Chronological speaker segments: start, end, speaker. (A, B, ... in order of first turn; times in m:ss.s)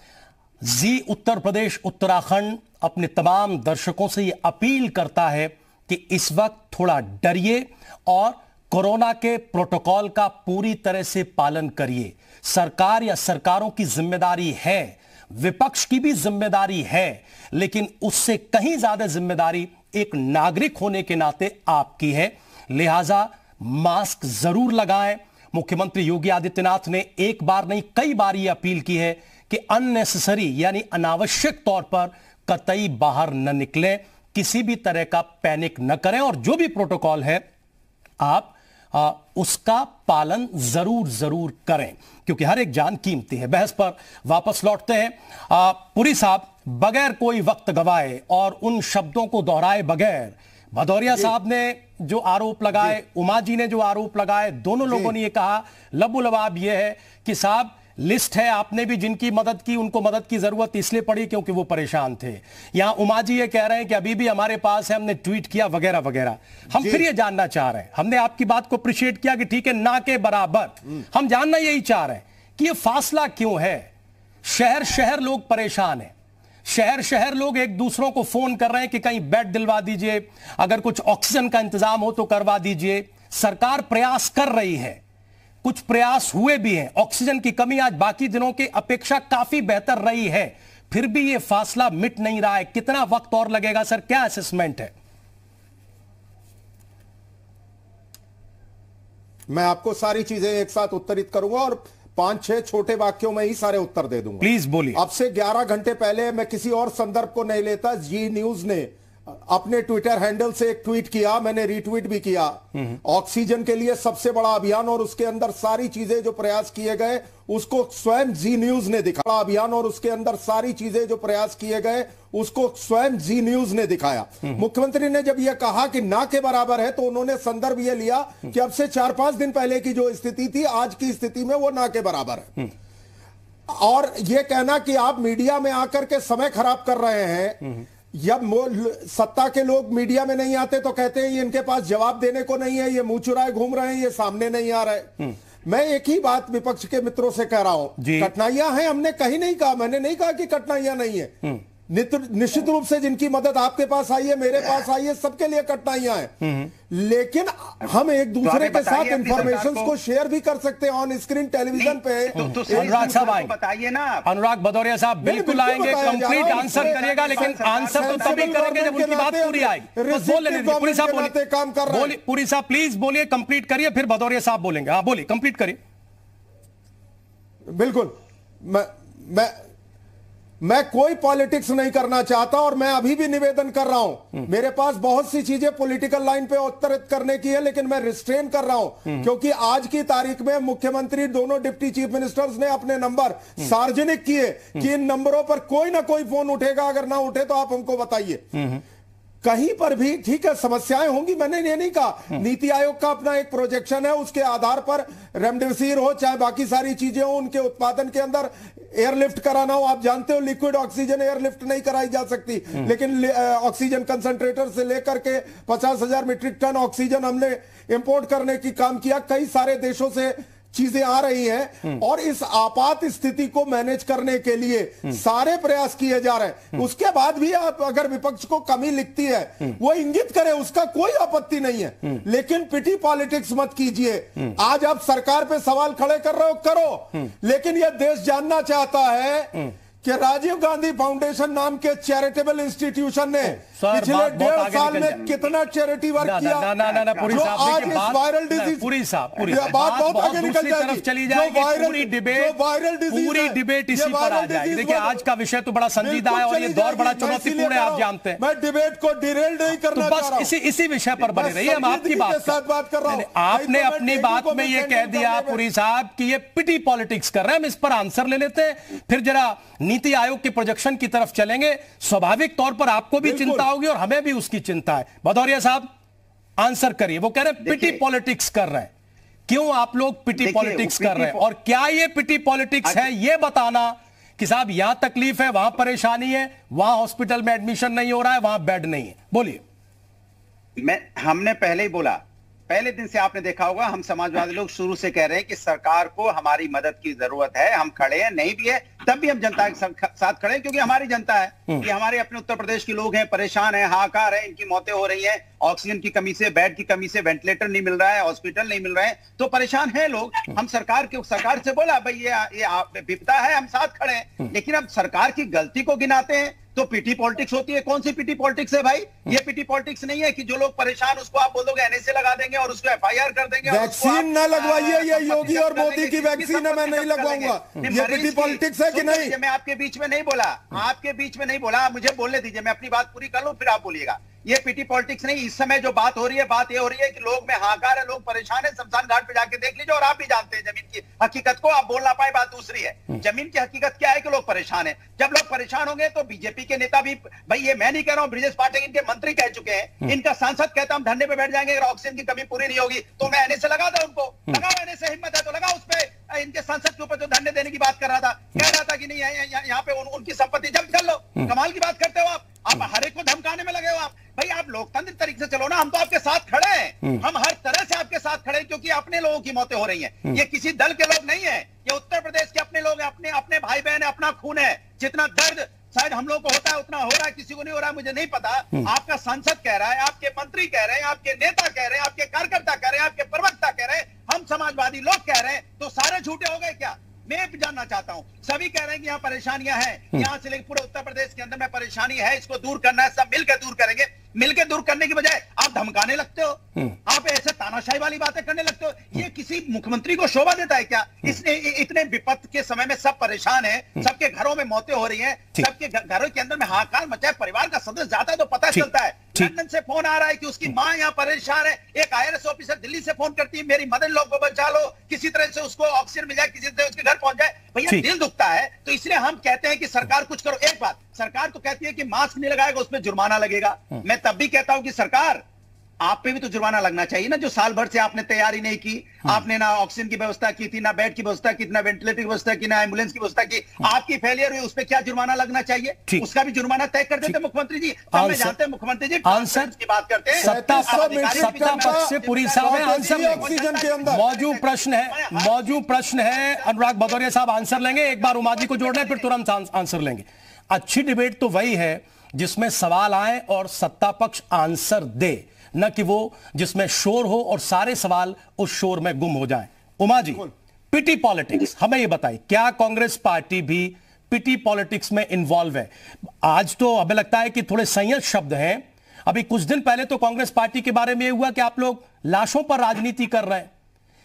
0:00.6-0:37.4 A
0:38.2-1:13.9 A
0:54.9-0:55.1 B
1:06.7-1:07.0 B
1:14.4-1:16.1 A
1:16.6-1:25.0 A
1:25.6-1:34.9 A
1:39.5-2:12.7 B
1:44.4-1:45.0 A
2:13.7-2:31.4 B
2:28.0-2:28.3 A
2:31.9-2:36.3 B
2:36.4-2:36.7 A
2:36.9-2:43.4 B
2:38.4-2:39.9 C
2:41.7-2:44.2 C
2:42.4-2:43.5 A
2:44.2-2:51.3 A
2:45.2-2:52.2 B
2:46.3-2:48.6 C
2:51.9-2:55.8 A
2:57.6-2:59.5 B
3:00.6-3:18.5 B
3:18.5-3:18.8 A
3:19.4-4:06.7 B
4:03.4-4:05.3 A
4:06.2-4:12.6 A
4:06.8-4:07.9 C
4:07.2-4:15.2 B
4:13.1-4:18.4 A
4:16.0-4:20.5 B
4:19.9-4:35.9 A
4:21.2-4:25.6 B
4:33.2-4:33.7 B
4:36.6-4:38.9 A
4:37.6-4:38.0 C
4:39.5-4:49.6 A
4:40.4-4:41.4 C
4:50.8-7:05.4 C
5:23.6-5:29.4 B
6:48.7-6:49.5 A
7:06.0-7:29.2 C
7:18.1-7:18.6 A
7:19.2-7:19.7 A
7:20.4-7:24.2 B
7:20.4-7:23.5 A
7:24.0-7:45.9 A
7:40.2-7:40.5 B
7:46.4-7:53.7 A